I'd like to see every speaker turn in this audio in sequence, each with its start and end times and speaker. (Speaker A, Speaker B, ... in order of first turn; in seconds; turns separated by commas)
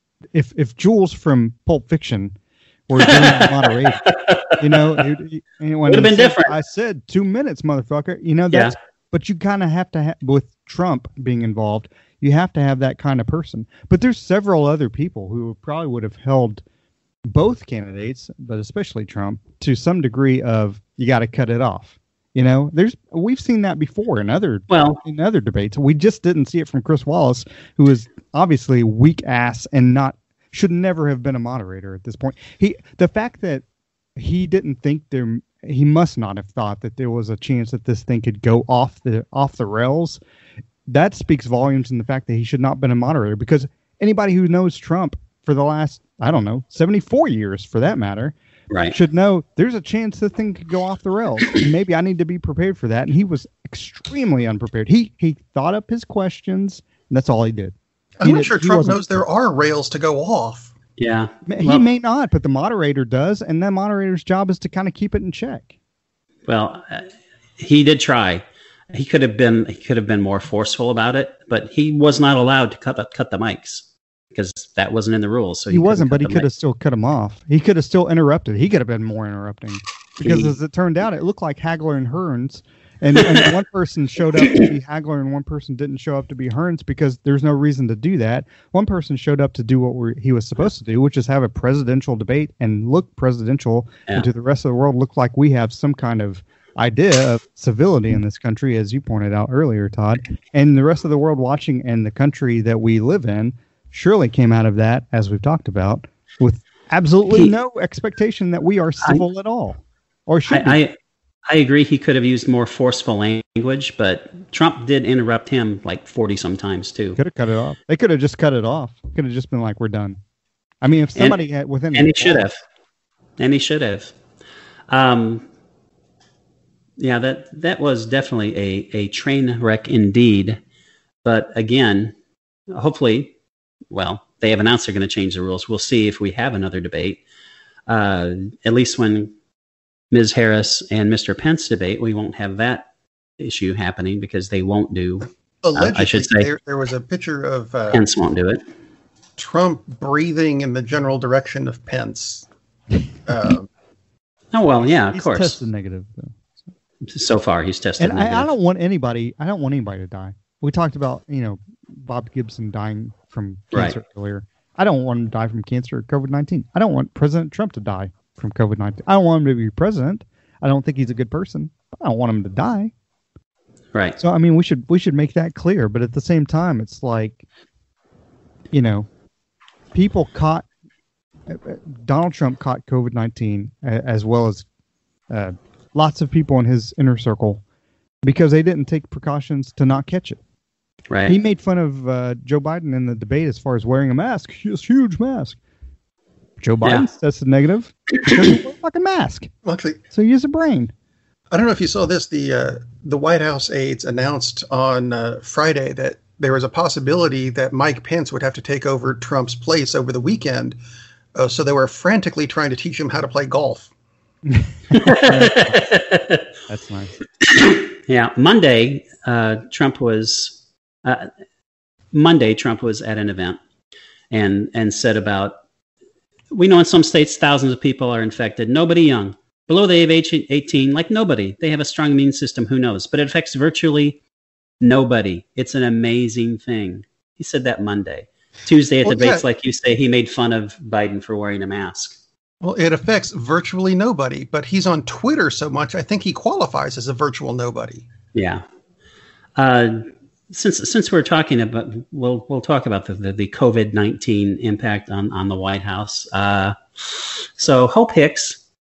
Speaker A: 0.3-2.3, Speaker A: 2.9-4.0, Speaker B: 3.0-5.0, Speaker A: 4.6-16.6, Speaker B: 5.9-6.5, Speaker A: 17.3-33.6, Speaker B: 24.7-25.0, Speaker A: 34.1-40.2, Speaker A: 40.9-48.3, Speaker B: 48.7-49.0, Speaker A: 48.9-59.2, Speaker C: 58.2-60.7, Speaker B: 61.0-61.7, Speaker A: 61.5-65.7, Speaker B: 66.5-76.5, Speaker A: 75.7-110.8, Speaker B: 80.2-80.5, Speaker B: 110.5-111.0, Speaker B: 111.5-117.2, Speaker A: 117.2-120.2, Speaker A: 120.8-122.5, Speaker B: 121.9-122.6, Speaker B: 123.4-124.1, Speaker B: 124.9-125.5, Speaker B: 127.0-130.6, Speaker B: 131.2-132.1, Speaker B: 132.7-133.3, Speaker B: 133.9-137.2, Speaker B: 137.9-139.3, Speaker B: 140.1-142.9, Speaker B: 143.4-146.5, Speaker C: 145.6-148.0, Speaker B: 147.9-148.6, Speaker C: 149.4-152.5, Speaker C: 153.2-153.7, Speaker B: 154.5-155.6, Speaker A: 155.1-156.4, Speaker B: 157.0-158.5, Speaker A: 158.0-172.9, Speaker B: 173.9-174.2, Speaker A: 174.2-177.4, Speaker A: 178.7-179.1, Speaker A: 179.9-180.7, Speaker A: 181.5-184.7, Speaker A: 185.3-187.6, Speaker A: 188.2-190.4, Speaker B: 191.1-191.4, Speaker A: 191.3-195.6, Speaker A: 196.6-199.5, Speaker C: 199.6-200.0, Speaker A: 200.1-200.9, Speaker C: 201.5-210.8, Speaker C: 211.3-213.9, Speaker A: 214.4-215.8, Speaker B: 214.9-216.4, Speaker A: 216.7-217.2, Speaker B: 217.5-221.3, Speaker B: 222.1-223.6, Speaker B: 224.3-225.5, Speaker B: 226.5-234.2, Speaker B: 234.8-242.2, Speaker C: 239.0-239.4, Speaker C: 242.6-248.0, Speaker B: 248.3-248.6, Speaker B: 249.6-258.6